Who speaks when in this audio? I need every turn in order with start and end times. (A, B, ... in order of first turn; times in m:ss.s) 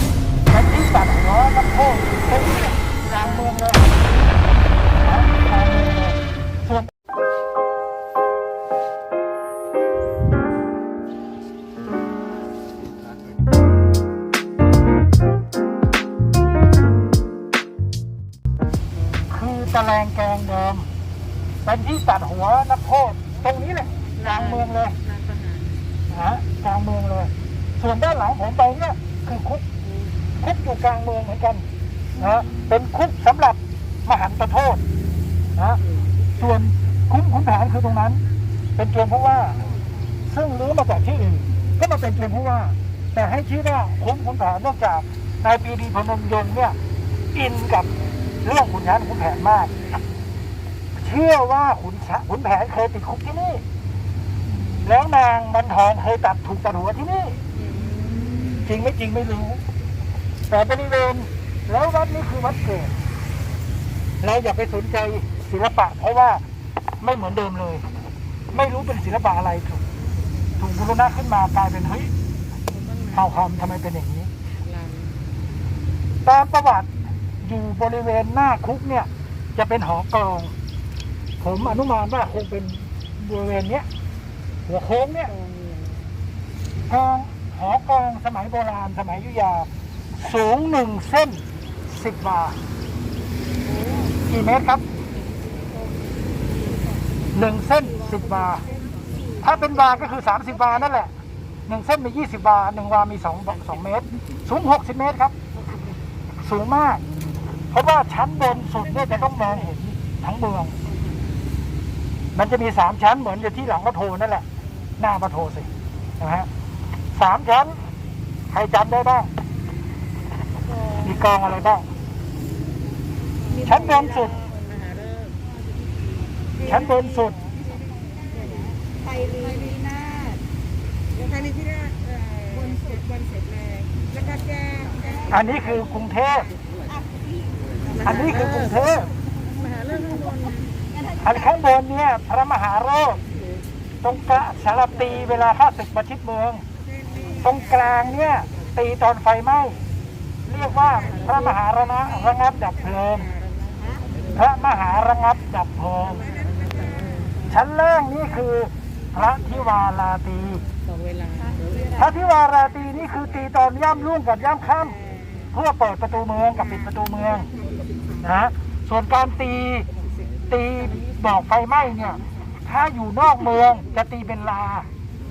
0:00.5-0:04.0 A
0:04.9-0:06.9 A
0:19.3-0:20.9 A
0:21.6-0:25.0 A
0:25.2-0:25.6 B
0:26.1-0:29.6 A
0:30.4-0:31.6 A
0:32.2-0:34.8 A
0:36.4-0:38.2 A
0:38.8-0:39.6 A
0:40.2-0:46.8 A
0:47.3-0:49.7 A
0:50.9-0:53.6 A
0:54.8-0:57.4 A
0:57.8-0:58.2 B
0:58.6-0:59.6 A
1:00.5-1:02.9 A
1:04.2-1:06.4 A
1:07.0-1:07.9 A
1:08.5-1:09.8 A
1:10.6-1:12.1 A
1:13.1-1:14.3 A
1:16.2-1:16.9 A
1:17.4-1:20.5 A
1:21.4-1:23.9 A
1:24.6-1:25.3 A
1:26.9-1:32.6 A
1:34.3-1:34.8 A
1:37.3-1:38.6 A
1:39.4-1:41.1 A
1:41.7-1:45.3 A
1:46.4-1:47.0 A
1:47.7-1:50.7 A
1:52.3-1:54.4 A
1:55.0-1:55.7 A
1:56.2-1:56.5 A
1:57.1-1:57.8 A
1:58.5-1:59.3 A
2:01.0-2:01.8 A
2:03.6-2:04.3 A
2:06.6-2:07.4 A
2:09.4-2:09.8 B
2:12.6-2:12.9 B
2:15.3-2:16.5 A
2:18.0-2:19.1 A
2:19.7-2:20.5 B
2:21.2-2:23.2 A
2:24.0-2:26.6 A
2:27.3-2:29.8 A
2:30.5-2:33.3 A
2:34.3-2:36.2 A
2:36.6-2:37.2 B
2:37.5-2:40.6 A
2:41.9-2:45.0 A
2:45.5-2:47.5 A
2:48.2-2:49.9 A
2:50.5-2:54.9 A